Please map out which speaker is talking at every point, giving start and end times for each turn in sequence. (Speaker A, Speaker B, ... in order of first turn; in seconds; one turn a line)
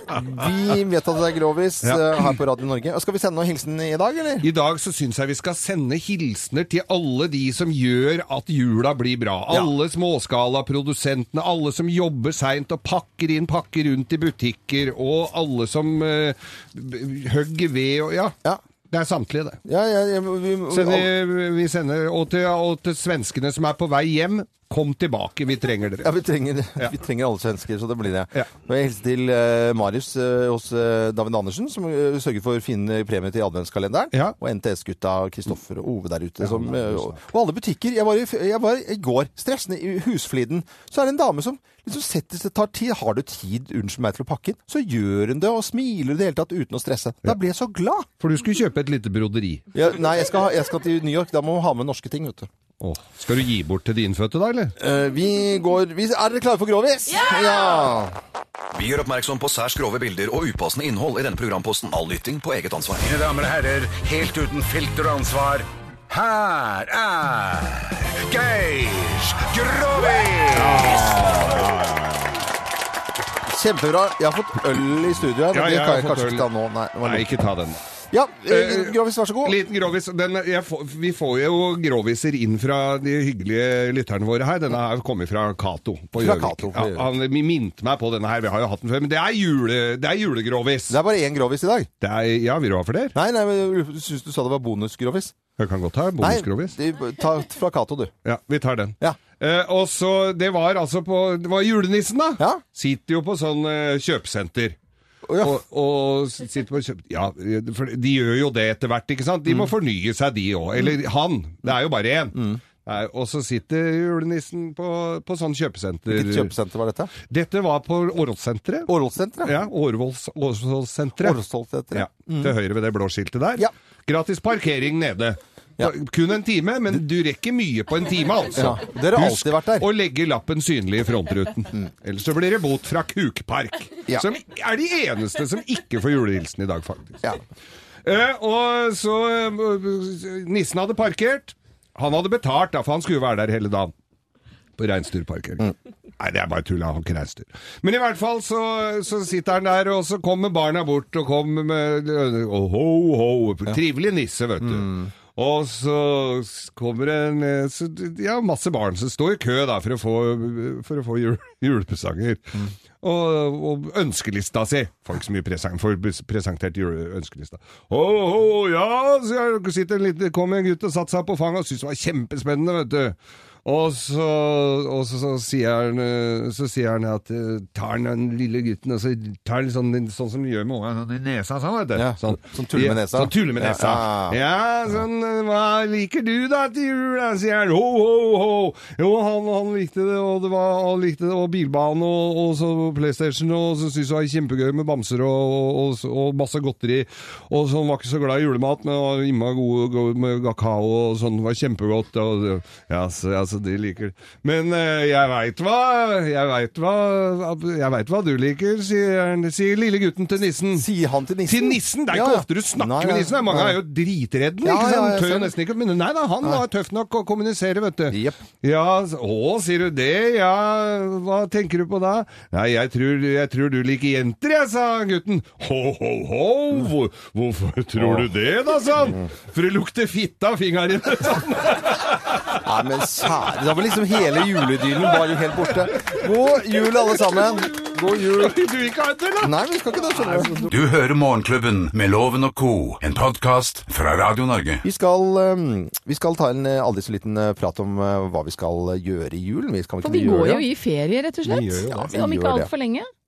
Speaker A: 0.1-4.5
Speaker B: 1.8-2.2
Speaker B: 4.4-18.3
Speaker B: 18.9-19.6
Speaker A: 19.6-21.1
Speaker B: 20.7-26.1
Speaker A: 26.0-48.1
Speaker B: 36.4-37.2
Speaker B: 48.2-49.7
Speaker A: 49.7-52.5
Speaker B: 52.8-54.7
Speaker A: 54.8-58.1
Speaker C: 58.7-63.1
Speaker D: 62.9-71.3
Speaker B: 70.5-72.5
Speaker A: 73.5-77.3
Speaker B: 75.5-76.5
Speaker B: 77.0-77.8
Speaker A: 78.1-79.6
Speaker B: 78.5-91.0
Speaker A: 86.2-87.1
Speaker A: 90.9-91.9
Speaker B: 92.0-93.1
Speaker A: 93.1-95.3
Speaker B: 95.6-96.8
Speaker A: 96.2-98.1
Speaker B: 98.2-104.8
Speaker A: 105.2-105.6
Speaker B: 105.4-116.5
Speaker A: 112.3-112.6
Speaker A: 116.1-117.1
Speaker B: 117.3-118.9
Speaker A: 118.9-119.5
Speaker B: 119.4-121.4
Speaker A: 121.2-122.5
Speaker B: 121.9-137.2
Speaker A: 128.5-129.9
Speaker B: 138.0-143.9
Speaker B: 144.8-210.9
Speaker A: 154.6-155.1
Speaker A: 181.9-184.4
Speaker A: 210.7-213.8
Speaker B: 211.5-232.6
Speaker A: 214.6-215.5
Speaker A: 218.1-218.4
Speaker A: 228.0-228.3
Speaker A: 229.0-229.3
Speaker A: 232.5-238.5
Speaker B: 233.9-240.7
Speaker A: 239.4-240.6
Speaker D: 240.7-244.8
Speaker A: 244.8-250.6
Speaker E: 250.0-253.1
Speaker B: 251.4-252.1
Speaker A: 251.9-252.7